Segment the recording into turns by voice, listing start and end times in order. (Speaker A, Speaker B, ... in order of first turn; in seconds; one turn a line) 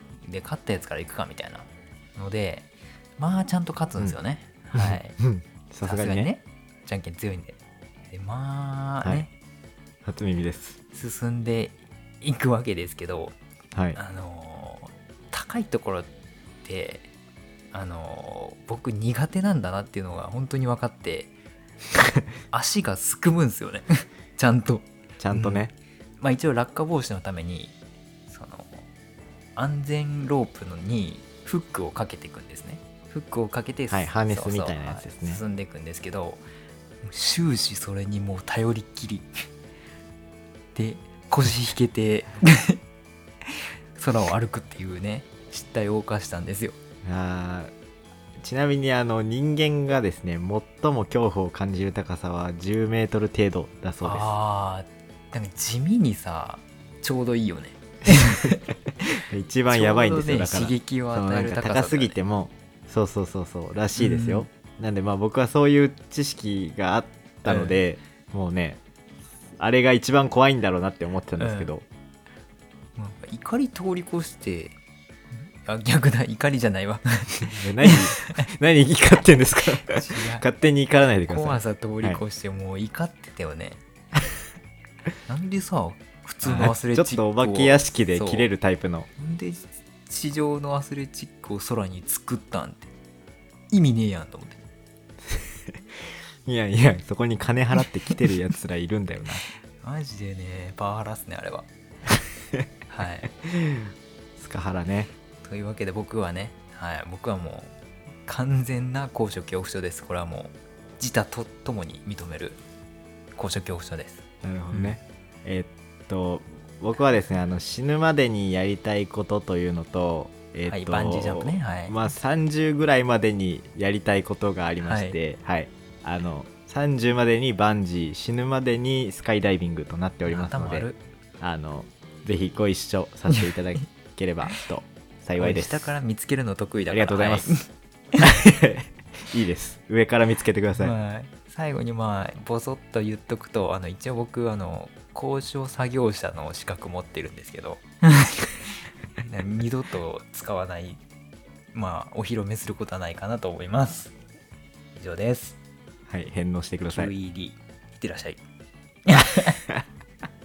Speaker A: 0.2-5.2
Speaker B: 4.7-6.3
Speaker A: 5.8-7.6
Speaker A: 8.1-9.3
Speaker B: 10.0-10.8
Speaker A: 10.9-13.3
Speaker B: 13.7-14.0
Speaker A: 13.9-16.1
Speaker A: 16.6-17.1
Speaker A: 17.7-21.3
Speaker A: 22.5-25.6
Speaker B: 25.2-25.7
Speaker A: 26.2-27.8
Speaker A: 28.3-28.8
Speaker A: 29.6-36.4
Speaker B: 33.9-35.4
Speaker A: 37.0-39.3
Speaker A: 40.7-42.8
Speaker A: 43.4-46.8
Speaker B: 47.0-47.7
Speaker B: 48.4-54.3
Speaker A: 54.0-58.6
Speaker B: 59.3-68.8
Speaker A: 59.7-62.1
Speaker A: 64.0-64.5
Speaker A: 67.4-67.8
Speaker B: 69.6-71.8
Speaker A: 71.4-71.7
Speaker A: 73.0-74.8
Speaker A: 75.6-78.2
Speaker B: 77.5-82.2
Speaker A: 79.9-80.5
Speaker A: 81.2-83.8
Speaker A: 85.3-88.5
Speaker B: 86.4-89.1
Speaker A: 89.2-92.9
Speaker A: 93.7-94.6
Speaker B: 95.2-99.4
Speaker A: 99.8-101.7
Speaker A: 102.9-103.3
Speaker B: 103.4-105.1
Speaker A: 105.4-107.7
Speaker A: 108.2-112.6
Speaker A: 113.3-114.2
Speaker B: 114.4-130.9
Speaker A: 114.7-115.0
Speaker A: 120.7-122.0
Speaker A: 124.8-125.2
Speaker A: 130.2-131.0
Speaker B: 131.4-135.9
Speaker A: 135.4-137.6
Speaker B: 136.9-137.5
Speaker B: 138.2-140.9
Speaker A: 140.8-148.5
Speaker A: 149.2-151.0
Speaker A: 151.7-154.1
Speaker A: 154.9-155.6
Speaker B: 156.1-157.1
Speaker A: 156.9-158.4
Speaker A: 159.1-159.6